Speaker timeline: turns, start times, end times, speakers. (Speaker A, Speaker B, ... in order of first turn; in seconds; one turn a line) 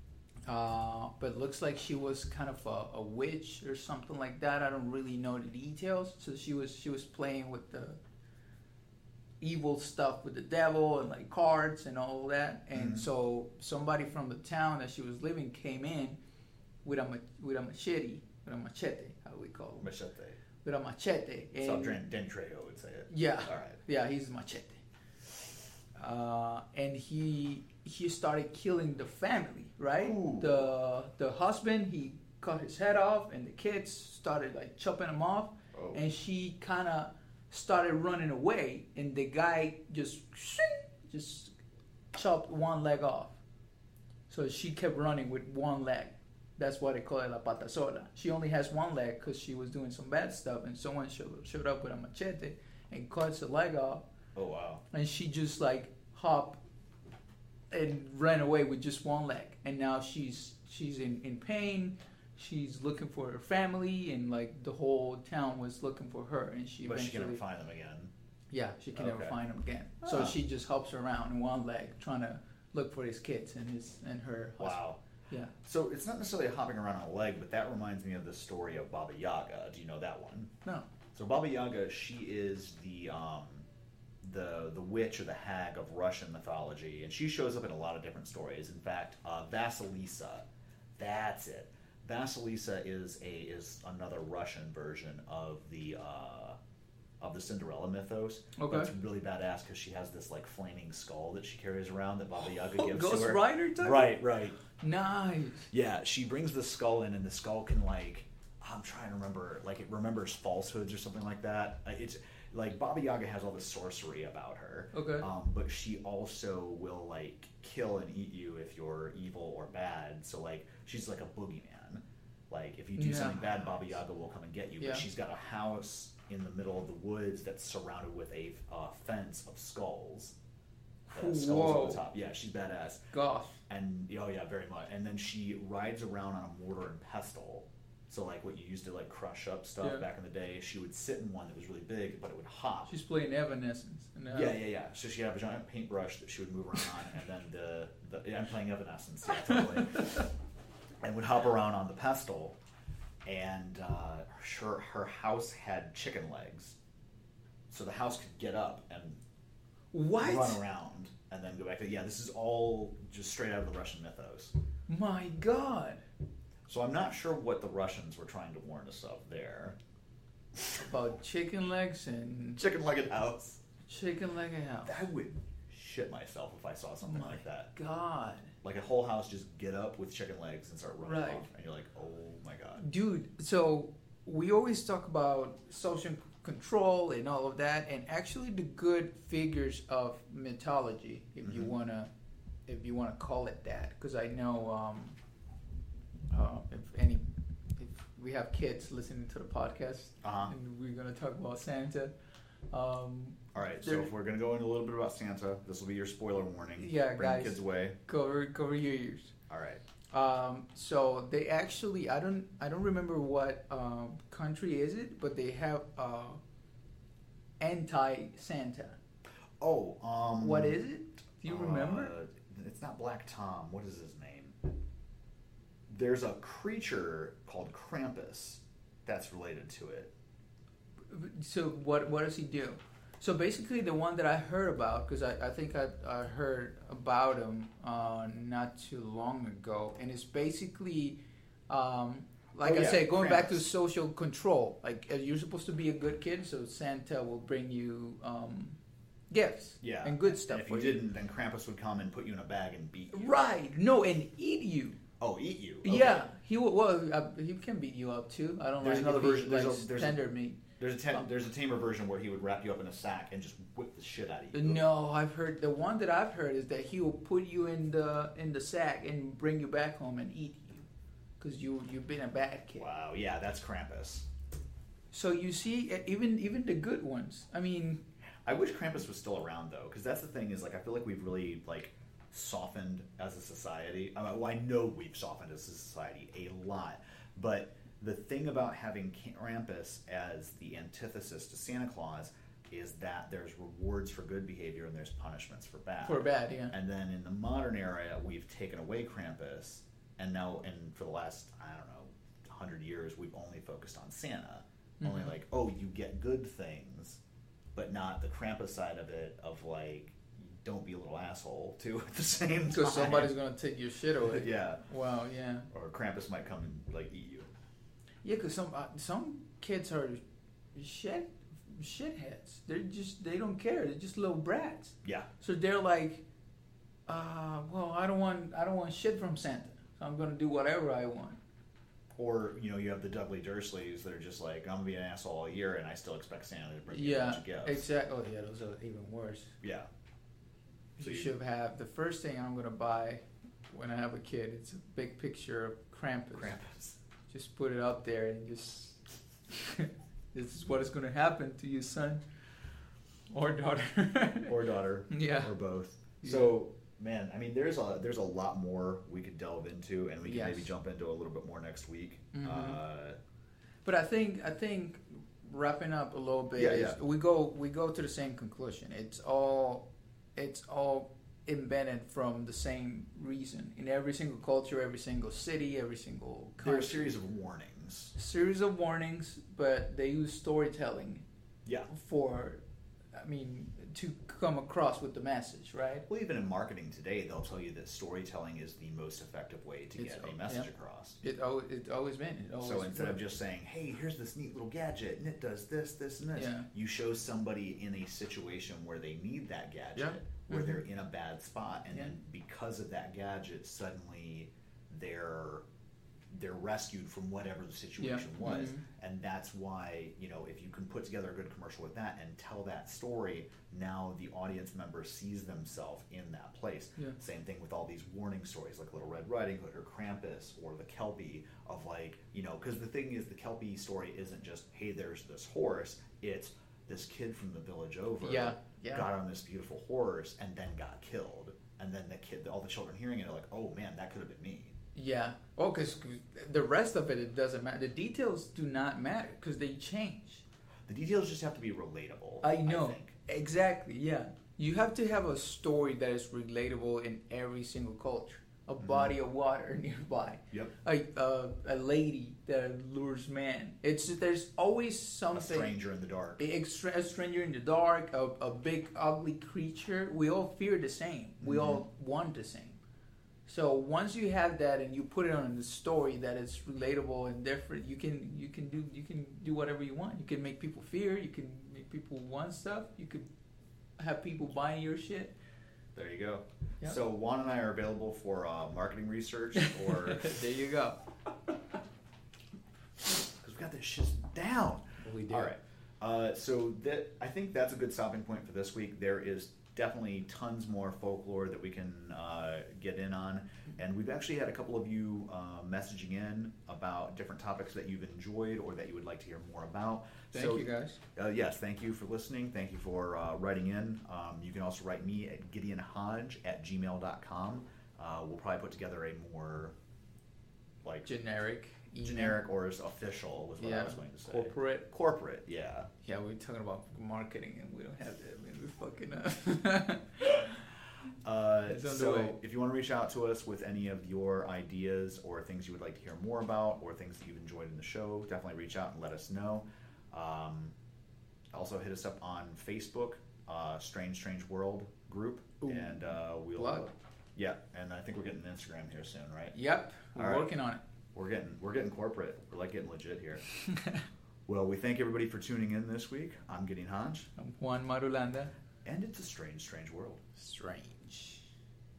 Speaker A: 0.5-8.0
Speaker A: 9.4-16.2
Speaker B: 12.7-13.1
Speaker A: 16.8-19.9
Speaker B: 19.8-20.4
Speaker A: 20.6-22.0
Speaker B: 21.6-23.8
Speaker A: 23.1-24.8
Speaker A: 26.0-41.5
Speaker B: 30.0-30.7
Speaker B: 35.7-36.0
Speaker A: 42.1-43.4
Speaker A: 44.3-54.0
Speaker B: 54.3-54.8
Speaker A: 54.9-56.6
Speaker A: 57.7-67.4
Speaker B: 66.8-68.1
Speaker A: 68.5-75.5
Speaker B: 68.9-69.4
Speaker B: 70.0-70.4
Speaker B: 74.6-75.0
Speaker B: 75.6-80.5
Speaker B: 81.1-83.7
Speaker B: 84.2-90.4
Speaker B: 91.0-96.6
Speaker B: 97.2-104.6
Speaker A: 98.5-98.9
Speaker A: 102.5-105.7
Speaker B: 105.7-130.3
Speaker A: 114.9-115.3
Speaker A: 123.0-123.5
Speaker A: 131.1-132.1
Speaker B: 131.1-133.0
Speaker A: 133.1-133.6
Speaker B: 133.7-142.9
Speaker A: 142.9-144.6
Speaker B: 144.3-150.3
Speaker A: 149.4-149.8
Speaker B: 151.0-152.6
Speaker B: 153.2-156.8
Speaker B: 157.7-159.2
Speaker A: 159.9-160.6
Speaker B: 160.2-164.5
Speaker A: 164.9-166.0
Speaker B: 166.7-169.8
Speaker B: 170.6-170.8
Speaker A: 170.8-172.6
Speaker B: 172.6-173.6
Speaker A: 173.9-175.1
Speaker B: 174.8-177.7
Speaker A: 177.0-178.5
Speaker B: 178.6-182.8
Speaker A: 181.0-181.4
Speaker A: 182.8-192.1
Speaker B: 191.4-191.7
Speaker A: 192.7-195.2
Speaker A: 196.3-197.2
Speaker A: 197.8-202.1
Speaker B: 200.2-200.5
Speaker A: 202.7-204.1
Speaker B: 203.5-208.0
Speaker A: 206.8-209.3
Speaker B: 209.5-209.8
Speaker A: 210.1-216.4
Speaker A: 217.6-219.0
Speaker B: 219.6-220.8
Speaker A: 220.4-222.1
Speaker B: 221.4-224.6
Speaker B: 225.9-230.1
Speaker A: 231.1-248.8
Speaker B: 242.6-243.6
Speaker A: 249.3-251.0
Speaker B: 249.8-253.4
Speaker A: 253.1-255.0
Speaker B: 255.2-256.3
Speaker A: 255.8-260.6
Speaker B: 258.8-260.2
Speaker B: 260.8-264.9
Speaker A: 264.5-270.9
Speaker A: 271.4-272.9
Speaker B: 272.8-274.2
Speaker A: 275.1-278.0
Speaker B: 278.4-307.2
Speaker A: 296.0-296.8
Speaker A: 305.0-305.3
Speaker B: 307.7-313.4
Speaker A: 312.7-315.7
Speaker B: 314.2-314.8
Speaker B: 315.7-317.5
Speaker A: 318.2-320.2
Speaker A: 320.7-326.2
Speaker B: 325.0-325.3
Speaker A: 327.1-331.4
Speaker B: 332.1-337.8
Speaker A: 336.9-339.6
Speaker B: 339.6-339.9
Speaker A: 341.0-346.6
Speaker B: 341.0-341.3
Speaker B: 346.3-347.0
Speaker A: 347.3-352.2
Speaker A: 353.3-354.5
Speaker B: 354.4-363.2
Speaker A: 355.1-355.5
Speaker A: 356.2-356.5
Speaker A: 360.2-360.7
Speaker A: 362.3-362.8
Speaker A: 363.8-377.1
Speaker B: 366.6-367.0
Speaker B: 376.6-378.1
Speaker A: 378.1-381.2
Speaker A: 381.9-382.6
Speaker A: 383.1-386.1
Speaker B: 386.1-391.2
Speaker A: 390.0-390.7
Speaker A: 391.2-393.2
Speaker B: 392.6-405.6
Speaker A: 396.4-396.7
Speaker A: 399.9-400.8
Speaker B: 406.3-434.7
Speaker A: 408.0-408.8
Speaker A: 428.2-429.1
Speaker A: 434.9-440.4
Speaker B: 440.9-443.1
Speaker A: 442.4-455.7
Speaker B: 448.8-449.1
Speaker B: 455.3-456.4
Speaker A: 456.4-462.8
Speaker B: 461.4-461.8
Speaker A: 463.4-473.3
Speaker A: 474.0-475.4
Speaker B: 475.9-480.4
Speaker A: 479.6-481.0
Speaker B: 483.2-509.8
Speaker A: 485.0-485.5
Speaker A: 500.3-501.0
Speaker A: 511.0-512.4
Speaker B: 512.0-515.9
Speaker A: 513.6-514.9
Speaker A: 516.0-520.5
Speaker B: 521.2-530.7
Speaker A: 521.7-522.4
Speaker B: 531.5-539.5
Speaker A: 535.6-536.9
Speaker A: 539.5-540.8
Speaker B: 540.1-540.5
Speaker B: 541.1-543.4
Speaker A: 543.7-544.0
Speaker B: 544.5-547.3
Speaker A: 547.4-548.5
Speaker B: 548.8-550.2
Speaker A: 550.4-551.5